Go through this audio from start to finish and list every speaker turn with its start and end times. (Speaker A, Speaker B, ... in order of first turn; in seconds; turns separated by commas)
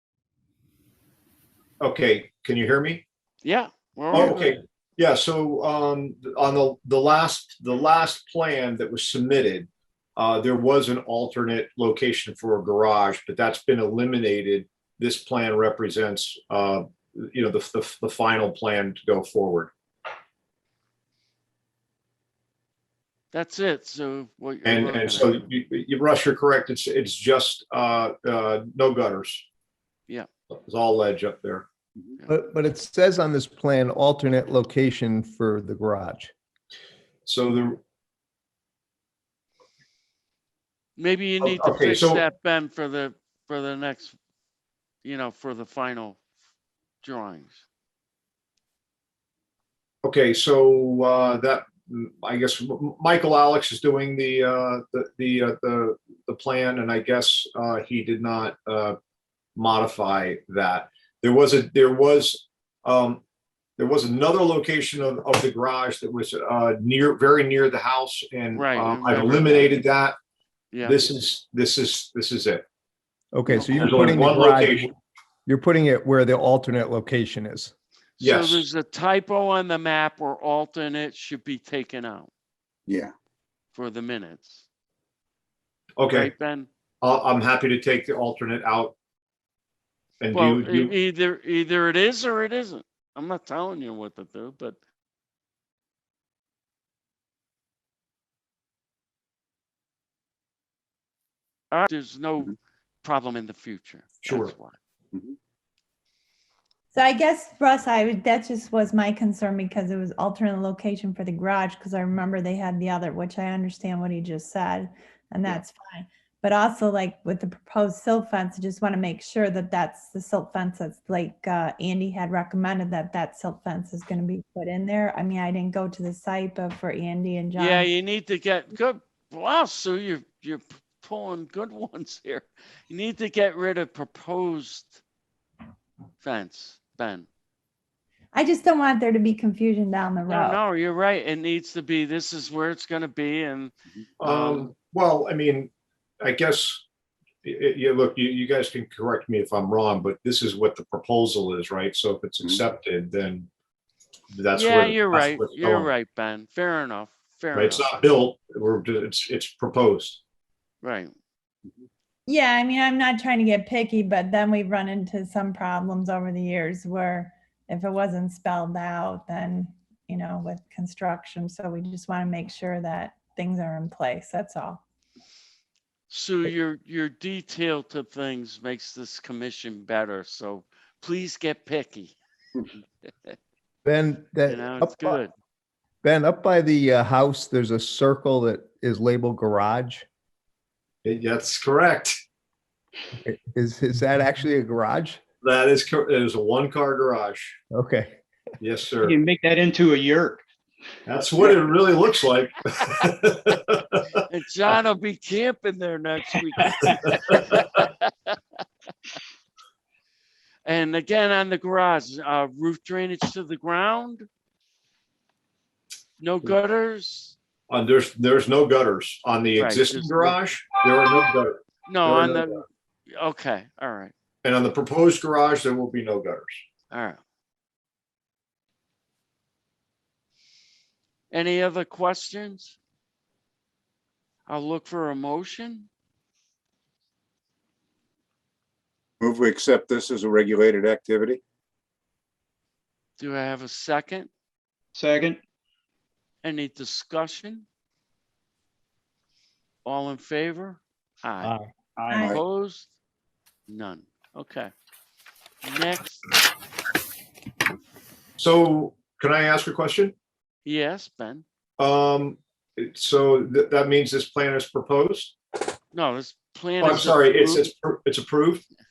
Speaker A: 1.8-3.0, Speaker B: 3.4-4.6, Speaker A: 4.1-19.7, Speaker B: 23.3-25.5, Speaker A: 24.6-29.4, Speaker A: 30.5-31.7, Speaker C: 32.3-36.3, Speaker A: 37.2-37.8, Speaker B: 41.0-44.1, Speaker A: 41.4-42.2, Speaker B: 45.0-46.2, Speaker B: 47.0-47.6, Speaker A: 50.0-59.0, Speaker A: 59.6-63.2, Speaker A: 63.8-70.2, Speaker B: 68.5-69.9, Speaker B: 70.7-71.1, Speaker A: 70.8-72.7, Speaker C: 73.3-74.9, Speaker B: 73.5-73.9, Speaker A: 73.7-74.9, Speaker C: 75.5-77.7, Speaker B: 78.2-82.3, Speaker A: 78.2-78.7, Speaker D: 82.9-83.1, Speaker B: 83.7-84.6, Speaker A: 86.0-86.3, Speaker B: 86.1-86.7, Speaker A: 87.0-89.0, Speaker A: 90.2-90.9, Speaker B: 90.3-94.8, Speaker B: 101.7-104.8, Speaker A: 104.2-104.5, Speaker E: 106.9-127.9, Speaker B: 127.6-135.0, Speaker B: 136.2-137.3, Speaker E: 138.3-140.6, Speaker B: 140.3-144.7, Speaker A: 144.2-145.7, Speaker A: 146.2-146.8, Speaker A: 147.4-153.5, Speaker A: 154.3-155.9, Speaker B: 154.5-158.0, Speaker A: 157.5-160.2, Speaker B: 160.8-161.1, Speaker E: 162.3-174.8, Speaker B: 176.1-182.2, Speaker C: 183.8-185.2, Speaker B: 184.5-185.3, Speaker C: 186.0-190.1, Speaker A: 191.0-192.2, Speaker C: 193.2-195.2, Speaker A: 195.4-197.6, Speaker C: 197.7-198.2, Speaker A: 198.6-199.2, Speaker F: 199.0-200.4, Speaker A: 201.1-204.2, Speaker B: 204.3-208.4, Speaker B: 210.7-214.3, Speaker B: 216.2-217.4, Speaker A: 217.7-222.6, Speaker B: 219.6-220.4, Speaker B: 221.9-224.1, Speaker A: 224.4-226.6, Speaker B: 226.9-227.2, Speaker B: 231.3-232.8, Speaker B: 234.5-235.9, Speaker D: 239.2-241.4, Speaker B: 243.2-244.3, Speaker F: 244.9-245.4, Speaker B: 246.4-247.7, Speaker B: 249.8-251.5, Speaker C: 251.4-251.7, Speaker F: 252.0-252.3, Speaker E: 252.1-252.4, Speaker B: 252.2-252.9, Speaker B: 253.7-254.7, Speaker B: 255.6-256.2, Speaker A: 258.4-260.1, Speaker B: 260.7-261.4, Speaker A: 261.8-265.4, Speaker B: 265.9-267.7, Speaker A: 266.8-268.6